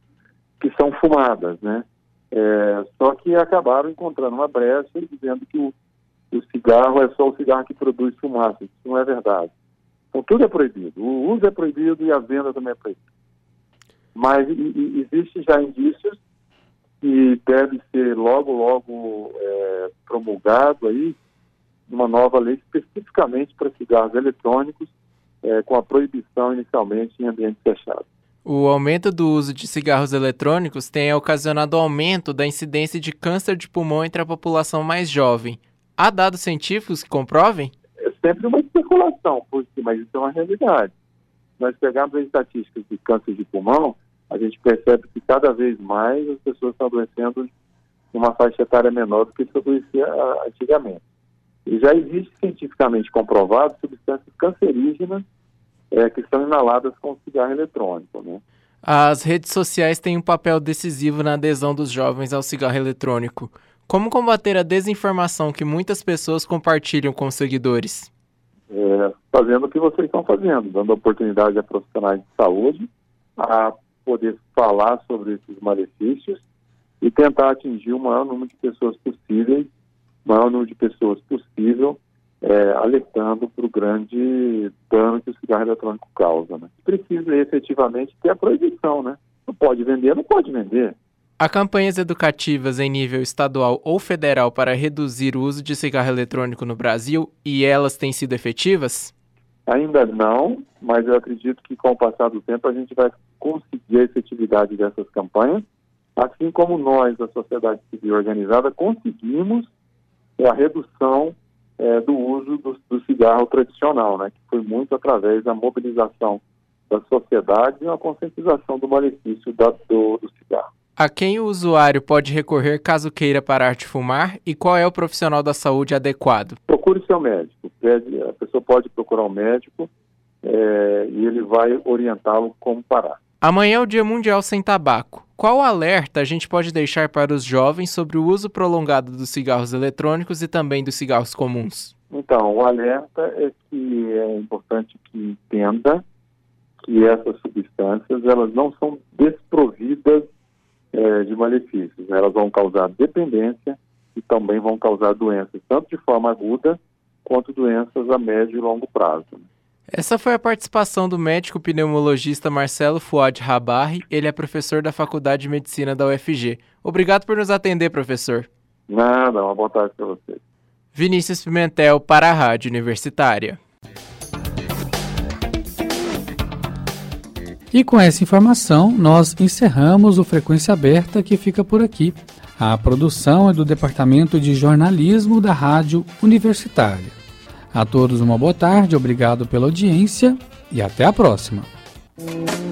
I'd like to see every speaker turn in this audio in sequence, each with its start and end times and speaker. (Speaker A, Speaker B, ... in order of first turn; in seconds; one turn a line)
Speaker A: 0.6-5.7
Speaker A: 6.3-9.5
Speaker A: 10.1-13.0
Speaker A: 14.1-16.2
Speaker A: 17.0-21.2
Speaker A: 21.9-24.9
Speaker A: 25.4-28.1
Speaker B: 28.4-37.7
Speaker A: 38.0-40.9
Speaker A: 41.6-47.5
Speaker A: 48.1-51.0
Speaker A: 51.6-55.2
Speaker A: 55.9-58.4
Speaker B: 58.8-68.0
Speaker A: 68.7-76.4
Speaker A: 77.0-79.7
Speaker A: 80.2-91.0
Speaker B: 91.4-99.1
Speaker A: 99.7-105.6
Speaker A: 106.2-109.7
Speaker A: 110.4-120.7
Speaker B: 121.0-126.5
Speaker A: 126.7-129.9
Speaker A: 130.4-133.2
Speaker B: 133.4-141.9
Speaker A: 142.1-146.0
Speaker A: 146.8-150.3
Speaker A: 150.9-159.4
Speaker B: 159.9-168.4
Speaker A: 168.9-170.4
Speaker B: 170.9-173.5
Speaker C: 177.7-187.2
Speaker C: 187.7-191.7